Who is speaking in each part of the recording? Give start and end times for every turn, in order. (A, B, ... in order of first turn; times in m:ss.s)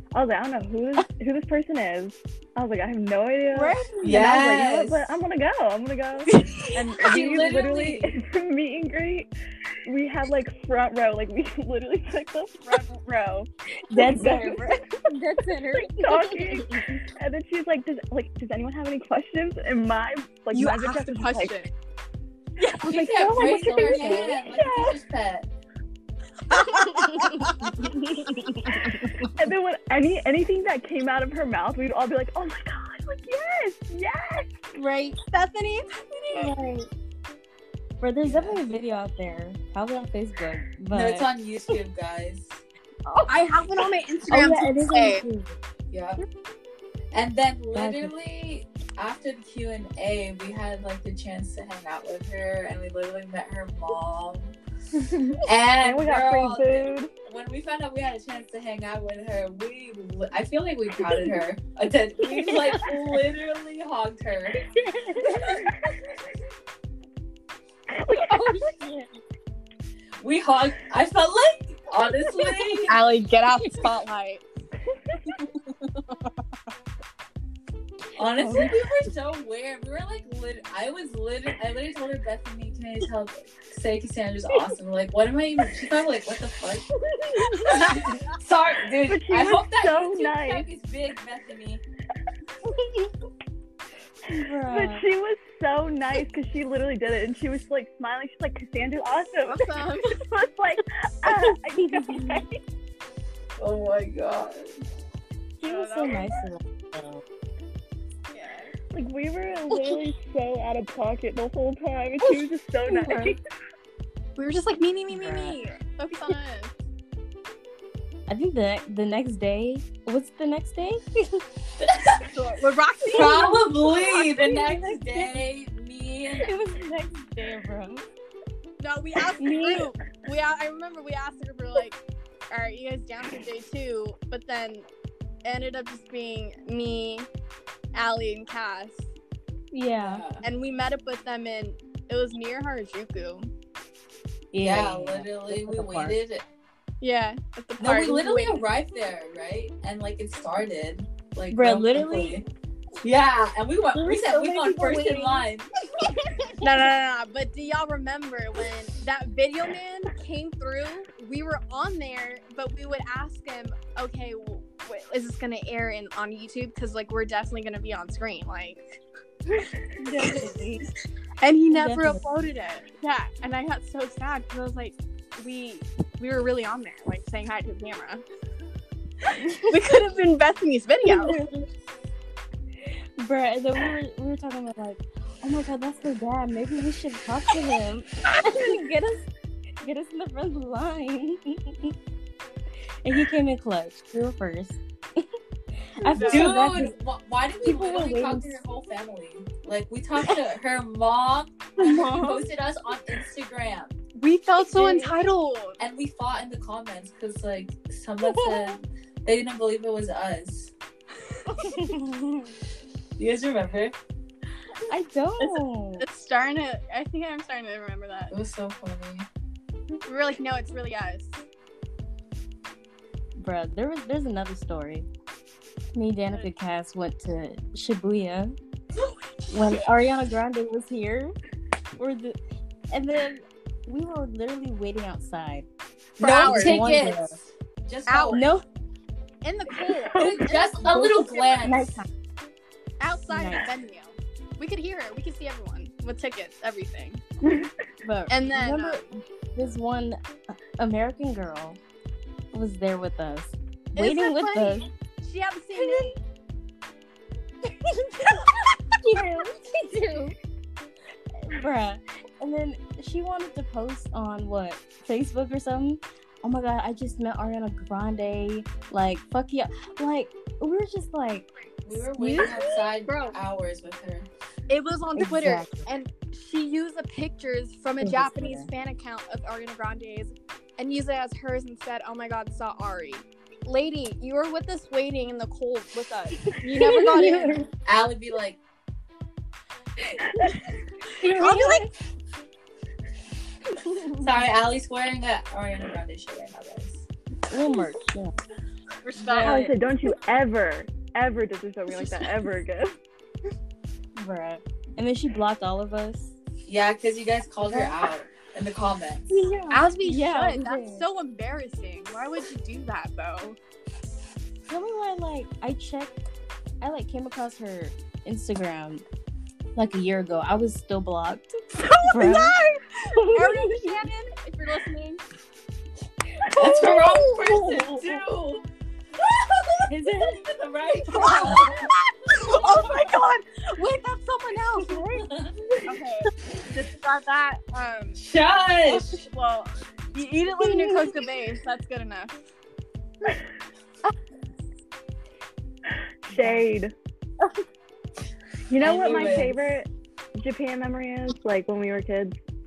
0:00.1-0:09.3 A
0:03.5-0:04.7 B
0:04.0-0:05.2 C
0:06.8-0:08.1 C
0:09.8-0:14.8 A
0:13.9-0:16.9 B
0:15.7-0:21.6 A
0:20.5-0:21.7 D
0:22.7-0:25.0 A
0:22.8-0:25.5 C
0:23.3-0:24.4 B
0:26.5-0:27.7 D
0:26.6-0:29.3 B
0:29.3-0:34.6 A
0:34.7-0:35.2 B
0:35.3-0:36.5 D
0:36.3-0:36.9 B
0:38.0-0:41.3 B
0:38.2-0:38.6 C
0:40.9-0:42.6 C
0:43.1-0:43.4 B
0:43.3-0:45.2 D
0:44.3-0:45.6 B
0:45.9-0:46.2 C
0:47.1-0:54.6 C
0:47.8-0:48.1 B
0:55.4-1:04.6 C
0:55.8-0:57.1 A
1:02.5-1:02.8 B
1:05.2-1:05.5 B
1:05.3-1:05.7 A
1:07.9-1:08.9 A
1:08.3-1:08.9 B
1:10.2-1:13.0 C
1:12.5-1:12.8 B
1:12.9-1:14.4 D
1:14.9-1:15.4 A
1:18.2-1:26.9 C
1:18.4-1:18.8 B
1:27.2-1:28.0 B
1:27.6-1:31.8 C
1:29.0-1:30.7 A
1:34.3-1:35.1 B
1:34.7-1:42.6 A
1:39.5-1:40.2 D
1:41.3-1:42.4 B
1:43.6-1:44.8 C
1:45.6-1:47.2 B
1:45.6-1:46.3 D
1:48.3-1:48.7 D
1:48.9-1:53.4 A
1:49.7-1:50.0 B
1:52.9-1:53.4 B
1:54.4-1:56.7 D
1:55.1-1:55.6 B
1:58.3-2:01.4 B
2:01.8-2:02.3 C
2:02.3-2:03.9 D
2:03.1-2:06.5 C
2:03.9-2:05.4 B
2:06.4-2:08.0 B
2:08.8-2:12.0 D
2:09.4-2:09.9 B
2:12.5-2:14.9 D
2:15.4-2:17.3 D
2:17.9-2:19.1 D
2:19.7-2:20.2 B
2:20.0-2:20.4 C
2:20.4-2:23.5 D
2:24.5-2:26.2 B
2:24.6-2:26.4 C
2:27.0-2:28.6 D
2:27.8-2:32.4 C
2:31.5-2:32.4 B
2:33.0-2:35.7 C
2:33.9-2:35.5 B
2:36.6-2:49.0 D
2:50.0-2:50.9 B
2:51.4-2:58.2 D
2:51.7-2:52.4 B
2:59.4-2:59.7 B
2:59.7-3:01.4 D
3:01.0-3:01.7 B
3:02.8-3:09.3 B
3:09.8-3:11.9 B
3:13.0-3:15.2 B
3:16.0-3:17.0 B
3:16.1-3:16.7 D
3:16.2-3:24.0 C
3:17.6-3:18.6 B
3:21.8-3:22.4 B
3:22.0-3:22.3 D
3:24.2-3:25.8 D
3:24.8-3:25.1 B
3:24.8-3:25.1 C
3:25.8-3:30.7 C
3:28.3-3:28.8 B
3:31.5-3:32.5 B
3:33.2-3:34.0 C
3:34.9-3:36.0 B
3:35.4-3:38.3 D
3:38.3-3:39.3 C
3:40.1-3:41.4 D
3:43.4-3:45.1 B
3:45.9-3:48.6 B
3:49.5-3:51.3 B
3:52.0-3:52.4 B
3:52.9-3:55.7 B
3:56.2-3:56.8 D
3:56.2-3:58.5 C
3:56.4-3:57.4 B
3:58.1-3:58.4 D
3:58.3-3:58.6 B
3:59.4-4:01.7 D
4:00.1-4:01.9 C
4:00.8-4:02.1 B
4:03.0-4:07.2 D
4:03.3-4:03.7 B
4:07.4-4:07.7 A
4:08.0-4:11.8 B
4:08.3-4:09.0 D
4:12.5-4:14.9 B
4:14.0-4:16.2 D
4:15.8-4:16.1 B
4:17.8-4:20.4 B
4:21.4-4:32.7 B
4:31.8-4:34.3 C
4:33.0-4:33.4 D
4:34.7-4:47.6 D
4:35.2-4:35.9 B
4:38.0-4:38.7 B
4:46.4-4:47.7 B
4:47.9-4:48.6 C
4:51.2-4:51.9 B
4:51.2-4:51.9 D
4:54.1-4:57.1 C
4:57.5-4:58.3 B
4:59.0-4:59.7 D
4:59.2-4:59.7 B
4:59.4-5:03.0 A
5:04.2-5:06.3 B
5:06.7-5:09.5 C
5:07.6-5:08.0 B
5:09.3-5:11.0 B
5:09.7-5:13.6 D
5:14.7-5:16.1 B
5:16.8-5:19.0 B
5:19.8-5:22.6 B
5:21.8-5:25.2 D
5:23.2-5:23.8 A
5:26.5-5:28.1 A
5:26.6-5:28.6 C
5:29.2-5:31.9 C
5:29.9-5:30.4 B
5:31.1-5:35.1 D
5:31.2-5:31.7 B
5:32.5-5:32.9 C
5:34.9-5:35.2 B
5:35.1-5:35.6 C
5:35.9-5:38.2 D
5:38.2-5:39.3 C
5:38.8-5:42.4 D
5:40.6-5:41.2 B
5:46.2-5:46.9 A
5:48.7-5:52.4 A
5:48.8-5:49.8 C